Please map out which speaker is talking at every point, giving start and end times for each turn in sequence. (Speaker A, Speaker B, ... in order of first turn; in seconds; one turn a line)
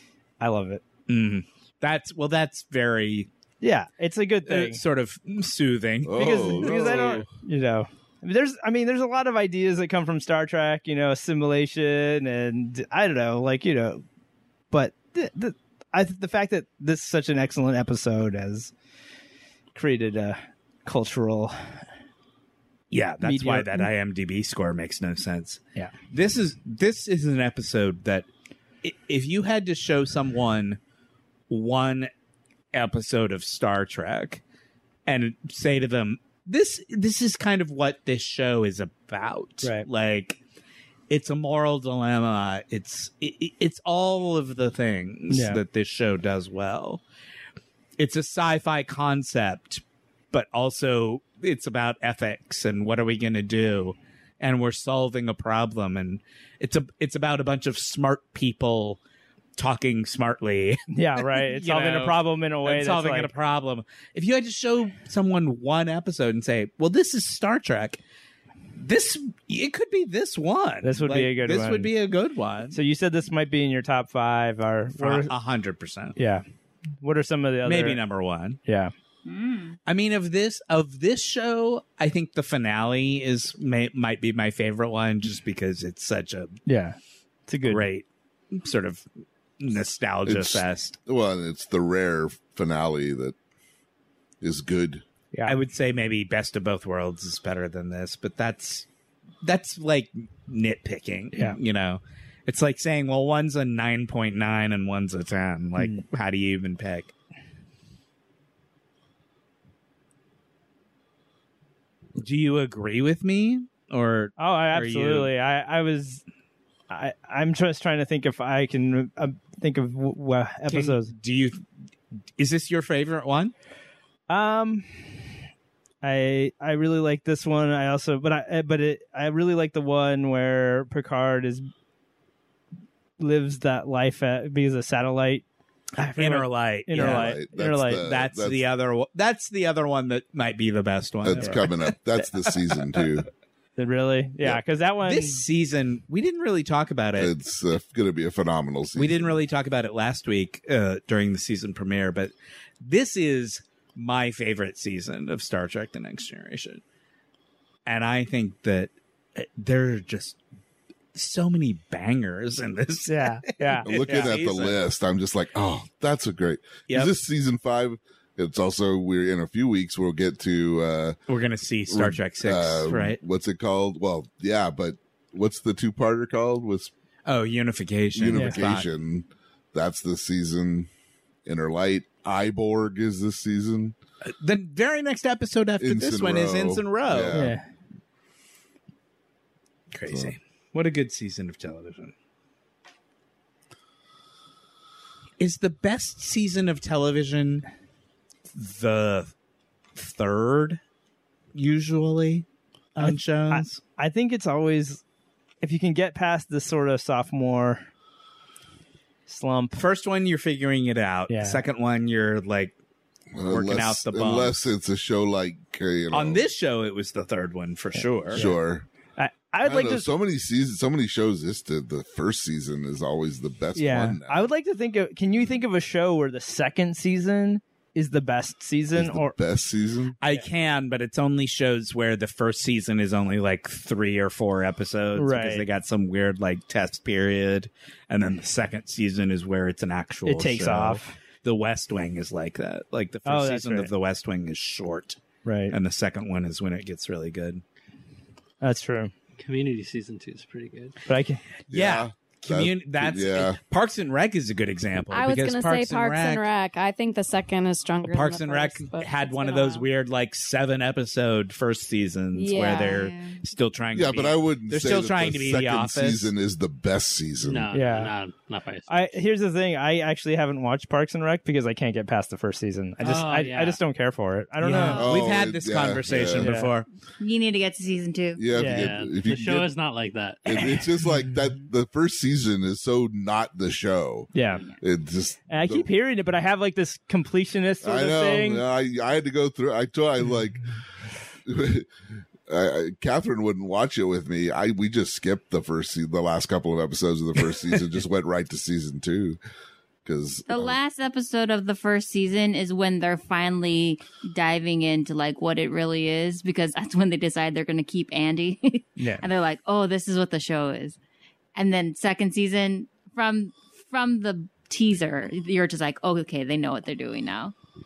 Speaker A: 0.4-0.8
Speaker B: 1.1-3.3
Speaker A: 3.6-4.8
Speaker B: 4.5-7.1
Speaker C: 6.0-7.3
Speaker A: 6.2-14.0
Speaker A: 14.7-18.7
Speaker A: 19.8-21.9
Speaker B: 22.9-28.3
Speaker A: 23.2-23.9
Speaker B: 28.8-30.8
Speaker B: 31.5-32.1
Speaker B: 32.7-34.4
Speaker B: 35.1-40.4
Speaker A: 39.6-39.9
Speaker B: 41.1-47.0
Speaker A: 45.3-45.6
Speaker B: 48.0-59.0
Speaker B: 59.6-68.0
Speaker A: 60.9-63.3
Speaker B: 68.8-72.8
Speaker A: 70.8-71.9
Speaker A: 72.7-75.3
Speaker B: 75.0-76.2
Speaker A: 76.2-76.4
Speaker A: 77.0-78.0
Speaker B: 77.6-78.6
Speaker A: 78.7-78.9
Speaker D: 79.3-79.8
Speaker B: 79.9-86.6
Speaker A: 86.7-87.9
Speaker B: 87.7-89.1
Speaker B: 89.6-91.0
Speaker C: 90.2-93.4
Speaker C: 94.4-95.0
Speaker B: 95.5-98.9
Speaker B: 99.4-107.1
Speaker A: 105.8-106.0
Speaker B: 112.2-115.3
Speaker A: 114.4-116.2
Speaker A: 116.9-121.1
Speaker B: 120.7-121.6
Speaker B: 122.4-123.5
Speaker A: 124.3-125.2
Speaker A: 126.0-131.7
Speaker A: 133.2-135.4
Speaker A: 136.0-138.0
Speaker B: 136.2-137.4
Speaker C: 136.9-138.6
Speaker B: 138.0-142.0
Speaker C: 141.2-143.3
Speaker A: 141.4-141.6
Speaker A: 143.8-145.4
Speaker B: 145.0-147.3
Speaker C: 147.2-149.4
Speaker B: 149.0-156.8
Speaker B: 157.9-160.4
Speaker B: 161.2-164.8
Speaker A: 163.1-164.3
Speaker C: 163.8-171.2
Speaker B: 171.3-173.2
Speaker C: 171.9-176.9
Speaker B: 177.3-178.9
Speaker C: 178.1-180.9
Speaker A: 178.3-178.6
Speaker C: 181.5-183.9
Speaker B: 184.3-187.4
Speaker C: 185.8-187.6
Speaker A: 187.3-187.7
Speaker B: 189.9-192.1
Speaker C: 190.1-190.3
Speaker B: 195.4-197.7
Speaker B: 198.5-199.3
Speaker B: 200.0-200.8
Speaker B: 201.5-203.8
Speaker A: 203.0-205.0
Speaker A: 205.6-207.9
Speaker A: 209.3-209.8
Speaker B: 209.8-212.7
Speaker A: 211.3-211.6
Speaker C: 213.3-216.4
Speaker B: 213.5-214.6
Speaker B: 216.1-218.5
Speaker A: 218.0-218.6
Speaker C: 218.3-218.9
Speaker A: 219.2-220.1
Speaker C: 219.6-224.4
Speaker A: 223.8-229.3
Speaker C: 228.9-230.2
Speaker B: 230.2-245.2
Speaker A: 235.2-235.7
Speaker A: 240.3-241.2
Speaker A: 243.2-243.9
Speaker A: 245.4-245.8
Speaker B: 245.7-247.6
Speaker A: 248.6-249.1
Speaker E: 249.4-251.0
Speaker A: 251.1-251.4
Speaker B: 251.7-256.5
Speaker C: 251.7-253.6
Speaker F: 255.1-259.9
Speaker B: 258.0-266.3
Speaker F: 262.3-263.1
Speaker D: 262.9-263.4
Speaker C: 263.9-267.7
Speaker E: 267.4-269.1
Speaker A: 267.7-268.1
Speaker A: 268.9-275.1
Speaker E: 273.0-273.8
Speaker B: 274.6-276.9
Speaker C: 275.0-276.5
Speaker A: 276.4-276.7
Speaker D: 277.2-278.4
Speaker C: 278.4-279.7
Speaker A: 278.6-278.9
Speaker E: 278.7-280.8
Speaker C: 280.4-285.9
Speaker A: 284.3-284.6
Speaker A: 285.5-288.6
Speaker C: 287.8-290.6
Speaker C: 291.4-291.9
Speaker C: 292.5-299.4
Speaker C: 300.1-300.8
Speaker D: 300.5-311.0
Speaker A: 309.0-309.3
Speaker D: 311.6-317.5